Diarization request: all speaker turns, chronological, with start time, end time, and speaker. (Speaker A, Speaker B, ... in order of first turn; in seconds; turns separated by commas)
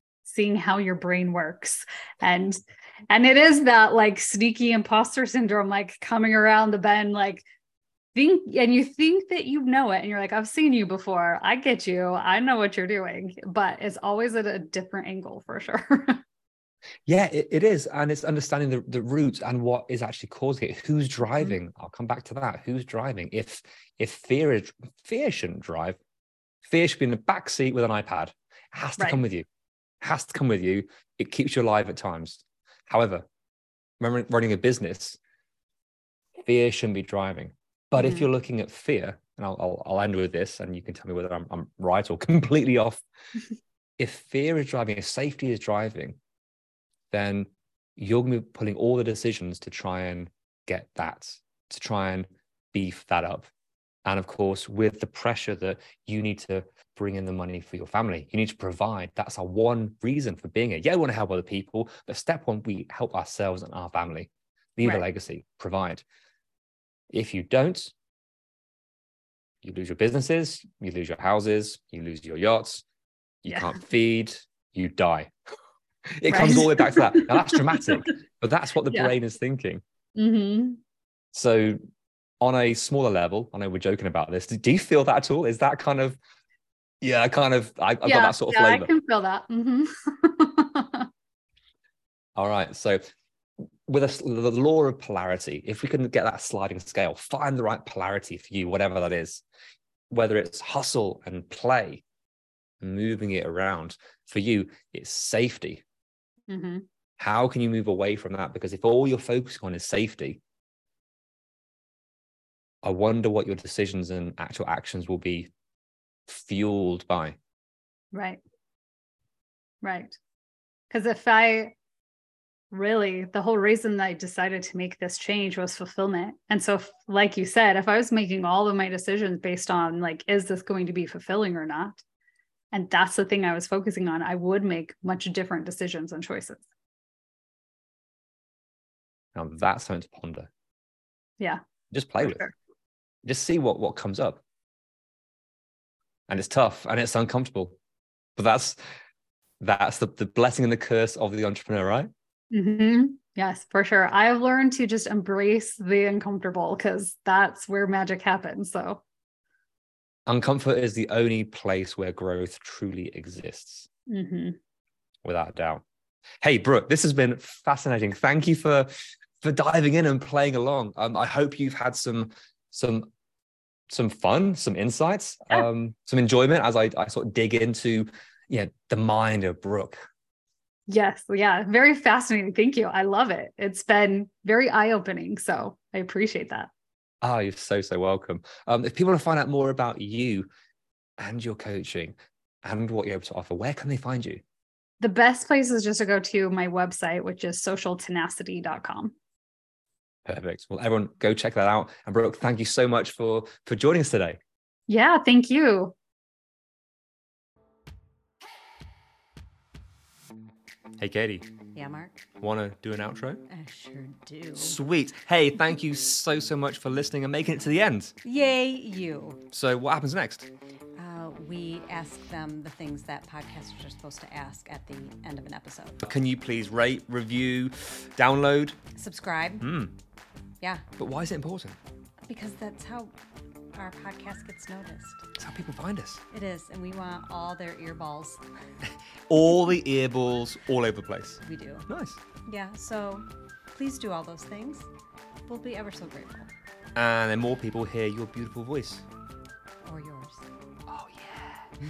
Speaker A: 0.2-2.6, Speaker A: 3.1-7.4, Speaker A: 8.1-16.2, Speaker B: 17.1-26.0, Speaker B: 26.6-29.5, Speaker B: 30.0-33.2, Speaker B: 34.0-35.2, Speaker B: 36.4-43.0, Speaker A: 38.0-38.3, Speaker B: 44.0-46.2, Speaker B: 47.1-53.5, Speaker B: 54.0-66.0, Speaker B: 67.1-67.9, Speaker B: 69.6-72.8, Speaker B: 73.4-75.3, Speaker A: 73.5-73.8, Speaker B: 76.2-79.8, Speaker A: 76.3-78.1, Speaker A: 80.2-80.8, Speaker B: 81.3-81.8, Speaker B: 82.4-86.2, Speaker B: 87.0-88.9, Speaker A: 88.0-91.1, Speaker B: 92.3-93.0, Speaker B: 93.8-99.4, Speaker B: 100.1-102.0, Speaker B: 102.8-105.8, Speaker A: 106.5-106.8, Speaker B: 107.2-110.4, Speaker B: 112.8-115.5, Speaker B: 116.3-117.4, Speaker A: 118.1-118.4, Speaker A: 119.8-120.2, Speaker A: 120.9-121.7, Speaker A: 122.7-132.0, Speaker A: 132.7-136.6, Speaker B: 139.3-140.5, Speaker B: 141.9-142.4, Speaker A: 142.2-142.5, Speaker B: 143.2-144.4, Speaker B: 146.3-147.8, Speaker B: 148.3-148.8, Speaker B: 149.6-152.1, Speaker A: 152.5-159.0, Speaker B: 160.3-163.9, Speaker A: 164.1-164.6, Speaker B: 165.2-165.8, Speaker B: 166.4-173.1, Speaker B: 173.9-180.0, Speaker A: 180.9-186.7, Speaker B: 187.2-190.5, Speaker B: 191.2-194.4, Speaker A: 195.0-199.1, Speaker B: 200.2-204.4, Speaker A: 204.9-205.9, Speaker B: 211.0-211.5, Speaker C: 211.7-212.3, Speaker B: 212.4-213.4, Speaker C: 213.5-214.8, Speaker B: 214.6-218.1, Speaker C: 218.2-219.4, Speaker B: 219.5-220.5, Speaker C: 220.9-226.0, Speaker B: 226.0-228.8, Speaker C: 228.9-229.7, Speaker B: 229.6-229.9, Speaker B: 231.0-231.8, Speaker C: 232.3-233.1, Speaker C: 233.7-235.3, Speaker B: 235.4-236.2, Speaker C: 236.3-238.4, Speaker B: 239.3-242.2, Speaker C: 241.4-241.9, Speaker C: 242.4-244.8, Speaker C: 245.5-246.5, Speaker B: 246.9-249.0, Speaker C: 249.8-250.4, Speaker B: 250.9-251.7